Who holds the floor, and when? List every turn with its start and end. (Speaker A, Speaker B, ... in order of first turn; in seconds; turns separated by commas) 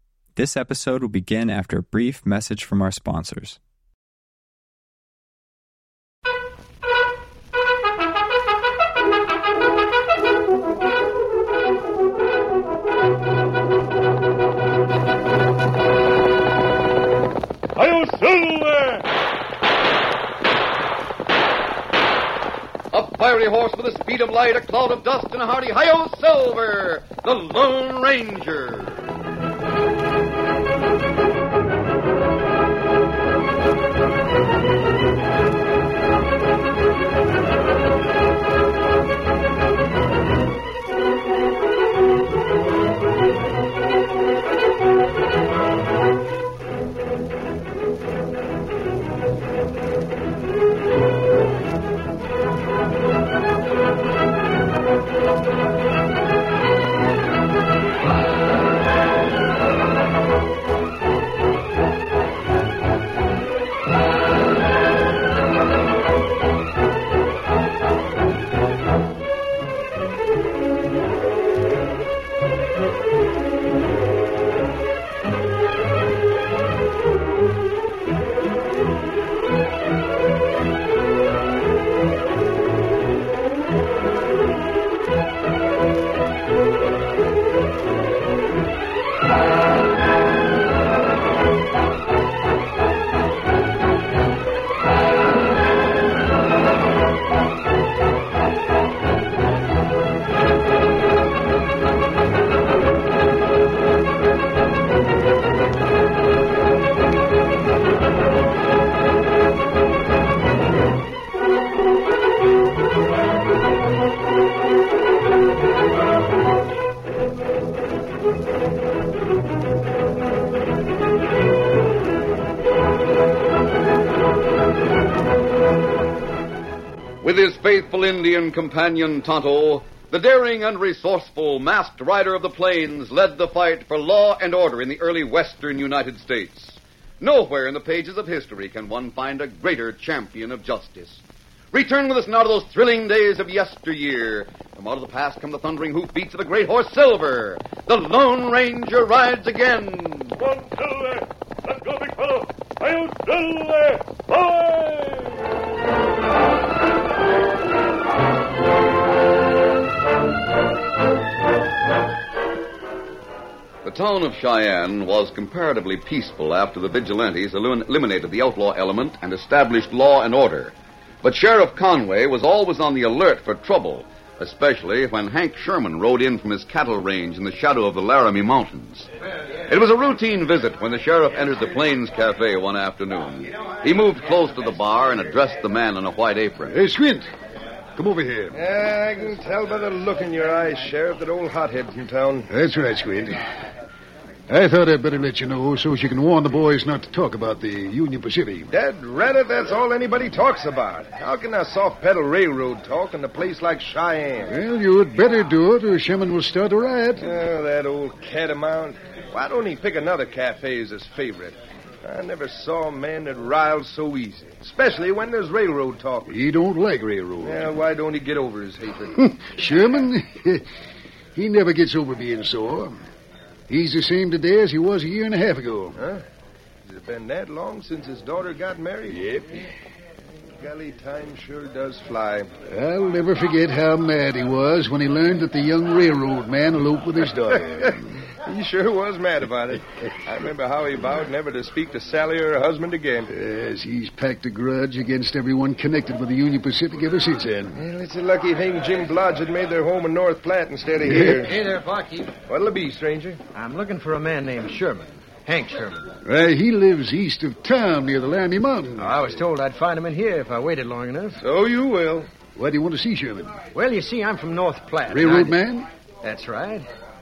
Speaker A: 0.4-3.6, Speaker B: 17.8-19.0, Speaker C: 22.9-29.1, Speaker C: 127.2-150.4, Speaker B: 150.4-155.4, Speaker C: 163.8-179.1, Speaker C: 179.7-186.7, Speaker D: 186.7-187.3, Speaker D: 188.0-188.6, Speaker E: 188.5-192.5, Speaker D: 192.5-193.4, Speaker D: 194.5-198.7, Speaker E: 198.7-204.5, Speaker D: 204.5-207.3, Speaker E: 207.2-216.3, Speaker D: 216.2-217.7, Speaker E: 217.4-219.2, Speaker D: 219.2-220.7, Speaker D: 221.4-223.0, Speaker D: 223.7-226.0, Speaker E: 226.9-229.2, Speaker D: 229.1-229.7, Speaker E: 230.6-232.5, Speaker D: 232.7-238.1, Speaker E: 238.4-243.3, Speaker D: 243.3-247.8, Speaker E: 247.8-251.5, Speaker D: 251.1-251.3, Speaker F: 251.2-252.3, Speaker E: 252.5-253.4, Speaker F: 253.5-256.1, Speaker D: 256.2-259.3, Speaker F: 259.0-261.4, Speaker E: 261.4-262.3, Speaker D: 262.6-263.6, Speaker F: 263.8-265.6, Speaker D: 265.1-265.9, Speaker F: 266.2-266.9